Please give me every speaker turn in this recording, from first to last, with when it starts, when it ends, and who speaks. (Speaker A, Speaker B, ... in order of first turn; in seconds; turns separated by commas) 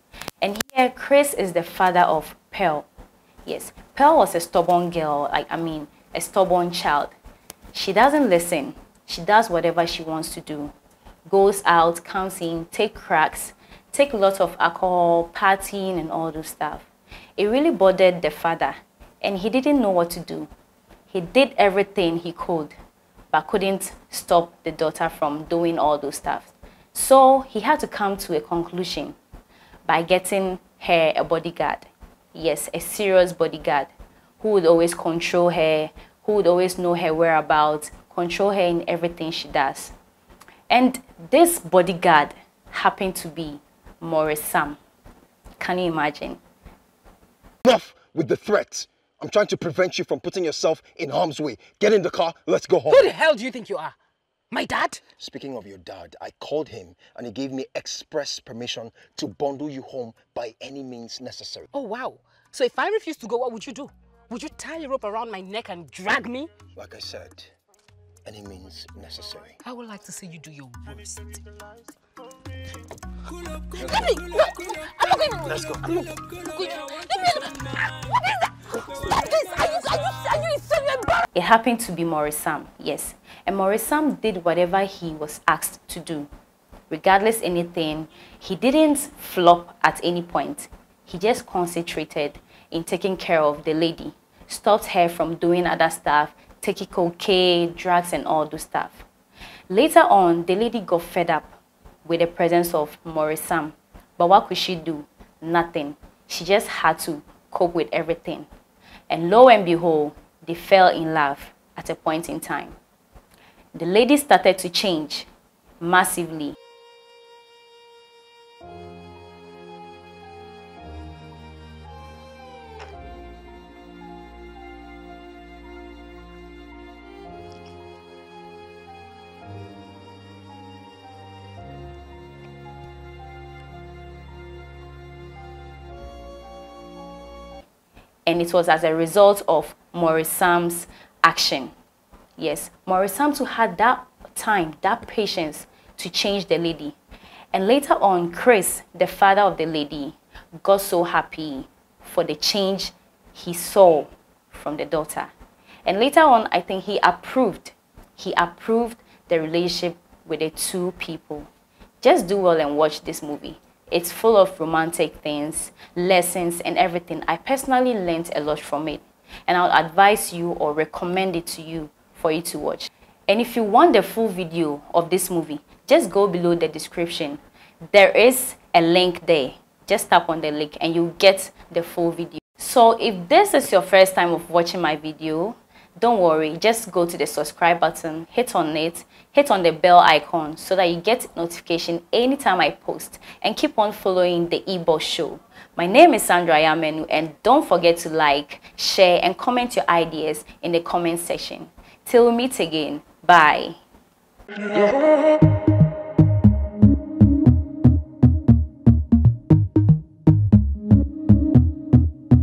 Speaker A: 0.4-2.9, Speaker A: 3.5-7.1, Speaker A: 7.7-10.7, Speaker A: 11.3-20.5, Speaker A: 21.1-22.7, Speaker A: 23.3-29.1, Speaker A: 29.9-39.9, Speaker A: 40.7-44.8, Speaker A: 45.6-46.4, Speaker B: 47.7-53.1, Speaker C: 52.9-54.0, Speaker C: 54.5-55.0, Speaker B: 55.2-61.7, Speaker C: 61.7-66.5, Speaker B: 66.8-67.5, Speaker B: 68.2-69.6, Speaker C: 69.6-71.3, Speaker C: 73.6-81.2, Speaker B: 75.5-75.8, Speaker A: 81.3-86.3, Speaker A: 86.9-99.1, Speaker A: 99.7-101.5, Speaker A: 102.0-108.5, Speaker A: 109.1-112.8, Speaker A: 113.8-115.3, Speaker A: 115.8-116.6, Speaker A: 138.3-141.7, Speaker A: 142.4-147.0, Speaker A: 147.5-155.3, Speaker A: 155.9-161.5, Speaker A: 162.0-177.4, Speaker A: 177.9-203.8